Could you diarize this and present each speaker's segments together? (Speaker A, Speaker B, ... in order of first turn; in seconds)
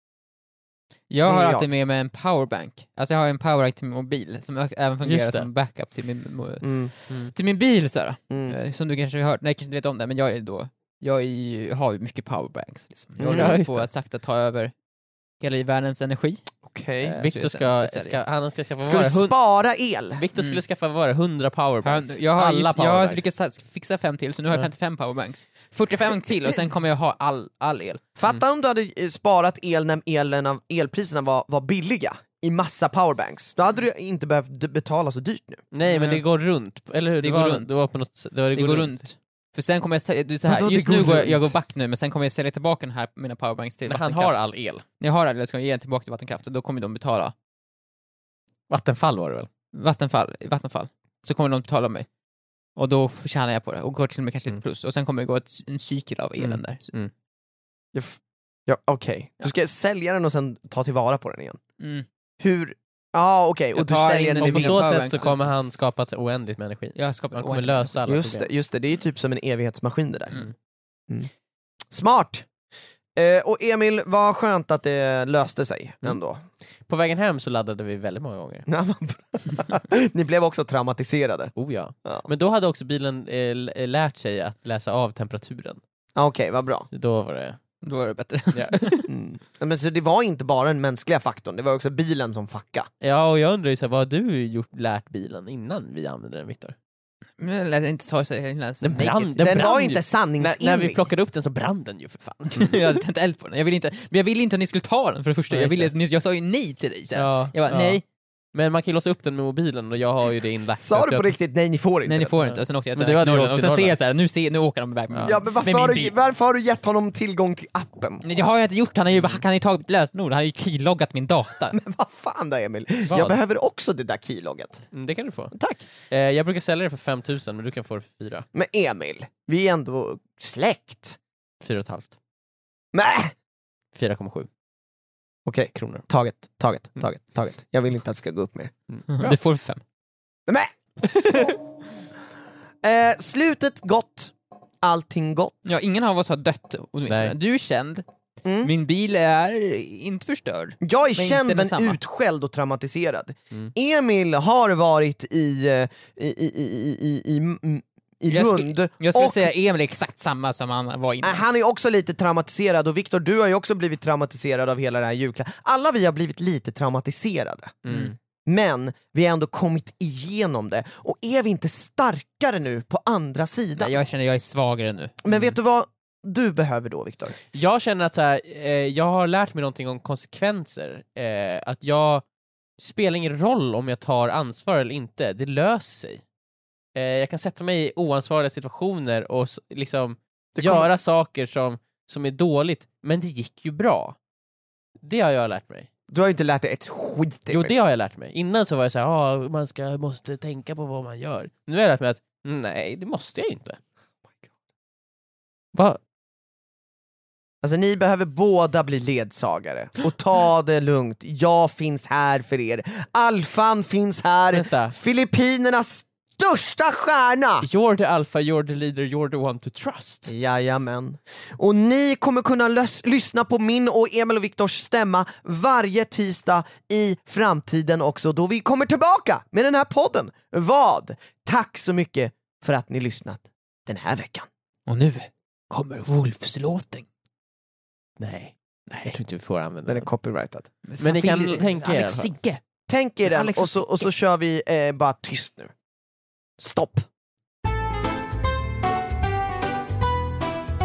Speaker A: 1.1-14.7, 15.4-16.4, 17.2-18.2, 21.8-28.0, 35.9-36.2, 37.2-37.7, 38.5-44.4, 45.0-47.3, 49.7-52.1, 52.8-56.9, 61.8-62.1, 63.7-65.3, 67.0-67.9, 87.8-89.1, 97.4-99.7, 102.6-108.0, 112.1-116.2, 118.2-121.7, 139.1-139.8, 145.7-148.0, 148.6-152.0, 158.3-161.4, 167.9-168.1, 173.8-175.1, 234.9-237.1, 238.9-239.2, 240.8-242.6, 243.2-244.1
Speaker B: 1.2-1.7, 6.6-6.9, 8.3-8.6, 13.2-13.6, 16.6-17.2, 18.8-20.2, 28.2-35.6, 40.5-41.4, 57.9-61.6, 62.4-65.0, 68.1-70.4, 71.9-72.5, 73.2-76.4, 78.7-81.5, 86.2-86.9, 89.1-92.9, 99.4-101.0, 110.8-112.3, 115.2-118.2, 121.7-124.8, 125.5-125.8, 128.5-131.2, 132.9-133.3, 135.5-138.7, 140.5-140.7, 142.8-145.6, 148.4-148.7, 150.8-159.5, 161.2-167.8, 168.5-173.9, 175.2-177.4, 190.6-190.9, 196.1-197.8, 207.6-217.7, 220.3-234.5, 239.9-240.7, 242.9-245.7, 246.6-247.1
Speaker C: 5.0-5.5, 13.3-13.9, 17.0-19.4, 20.1-23.2, 35.7-39.0, 43.9-44.8, 48.7-49.5, 56.4-57.1, 64.4-68.5, 76.9-78.7, 81.6-85.8, 86.9-87.6, 88.5-88.9, 93.0-96.8, 98.8-102.8, 105.5-105.9, 107.2-108.0, 108.5-111.3, 112.4-114.0, 115.1-115.4, 119.1-119.4, 123.1-123.4, 124.9-128.5, 131.6-132.2, 133.9-134.5, 135.8-136.1, 138.9-139.4, 147.1-147.3, 167.8-168.1, 175.3-175.6, 177.5-182.2, 182.8-186.2, 186.9-194.2, 195.0-195.9, 197.5-203.8, 205.7-206.0, 214.5-214.9, 217.6-220.3, 238.2-240.1, 241.0-242.3